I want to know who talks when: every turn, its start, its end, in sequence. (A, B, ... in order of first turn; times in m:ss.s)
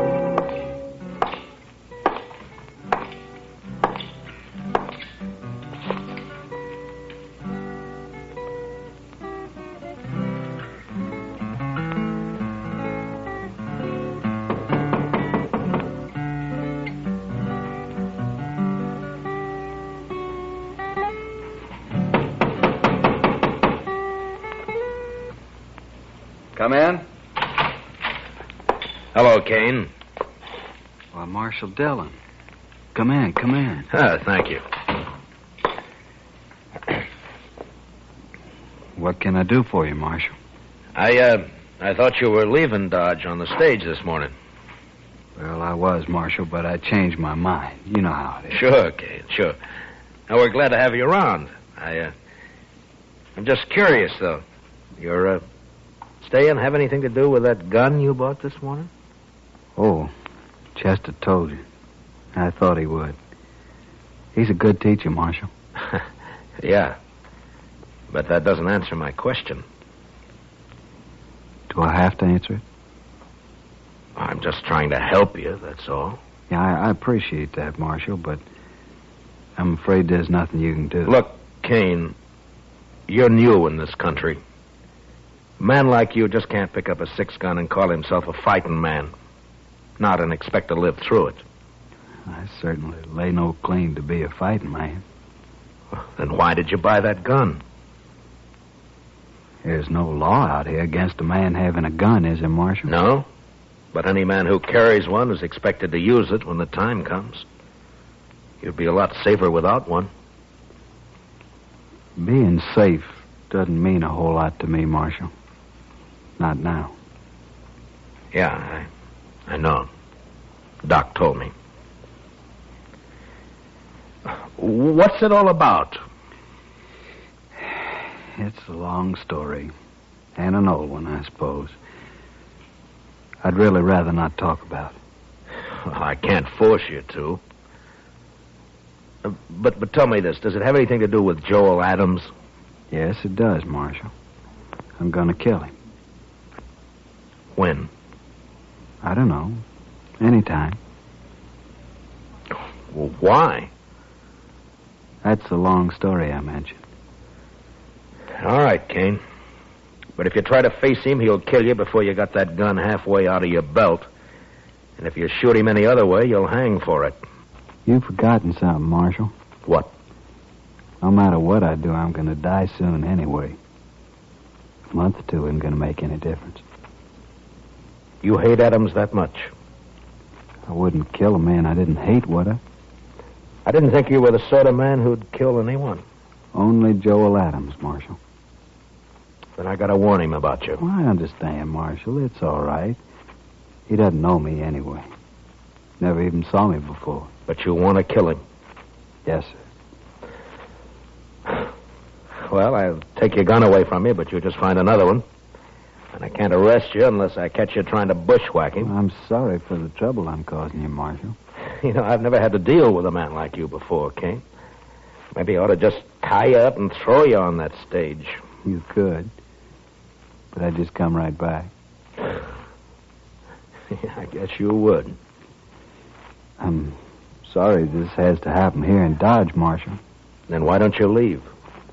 0:26.5-0:27.0 A
0:29.1-0:29.9 B
0:31.1-0:32.2 A
0:32.9-0:33.9 A
0:33.9-0:34.6 B
0:39.0-0:40.3 A
0:40.9-0:44.3 B
0:45.4-0:48.6 A
0:48.5-0:49.6 B
0:50.3-0:52.1 B
0:53.4-0:54.4 B
0:55.0-0:55.4 B
0:56.2-0:58.9 B
0:59.8-1:00.1 A
1:00.7-1:01.6 A
1:02.3-1:03.2 A
1:04.3-1:05.5 A
1:06.6-1:07.0 B
1:08.1-1:09.6 B
1:11.7-1:12.6 A
1:14.2-1:16.2 B
1:16.5-1:18.4 A
1:19.6-1:21.1 A
1:21.0-1:22.1 B
1:23.1-1:24.4 B
1:25.6-1:29.1 B
1:30.0-1:31.4 B
1:32.2-1:35.0 A
1:36.0-1:37.6 B
1:39.6-1:42.9 A
1:42.8-1:43.3 B
1:43.9-1:47.4 B
1:48.6-1:50.1 B
1:52.2-1:55.3 A
1:56.4-1:56.9 A
1:58.3-1:58.9 B
1:59.5-1:59.9 B
2:00.8-2:01.5 B
2:04.3-2:06.0 B
2:08.3-2:09.7 A
2:10.4-2:11.8 A
2:13.4-2:15.0 A
2:15.8-2:17.4 B
2:19.2-2:22.3 B
2:22.9-2:24.1 A
2:25.0-2:25.7 A
2:27.5-2:27.9 B
2:29.0-2:29.6 A
2:30.2-2:30.8 A
2:32.9-2:33.7 B
2:35.2-2:36.8 A
2:38.4-2:39.2 B
2:40.2-2:44.1 B
2:45.0-2:47.2 B
2:47.8-2:49.3 A
2:49.6-2:49.9 B
2:51.0-2:53.6 A
2:54.9-2:56.6 A
2:58.2-2:59.5 B
3:00.7-3:02.6 A
3:03.6-3:06.0 B
3:06.5-3:08.2 A
3:09.6-3:10.8 B
3:10.8-3:13.0 A
3:13.9-3:15.1 A
3:16.0-3:17.3 A
3:17.5-3:18.4 B
3:19.2-3:19.5 A
3:22.4-3:25.2 B
3:26.1-3:28.9 B
3:28.8-3:31.4 A
3:31.8-3:34.4 B
3:35.3-3:38.4 B
3:38.6-3:39.3 A
3:40.5-3:41.7 A
3:43.9-3:45.2 B
3:46.6-3:50.0 A
3:50.5-3:51.5 B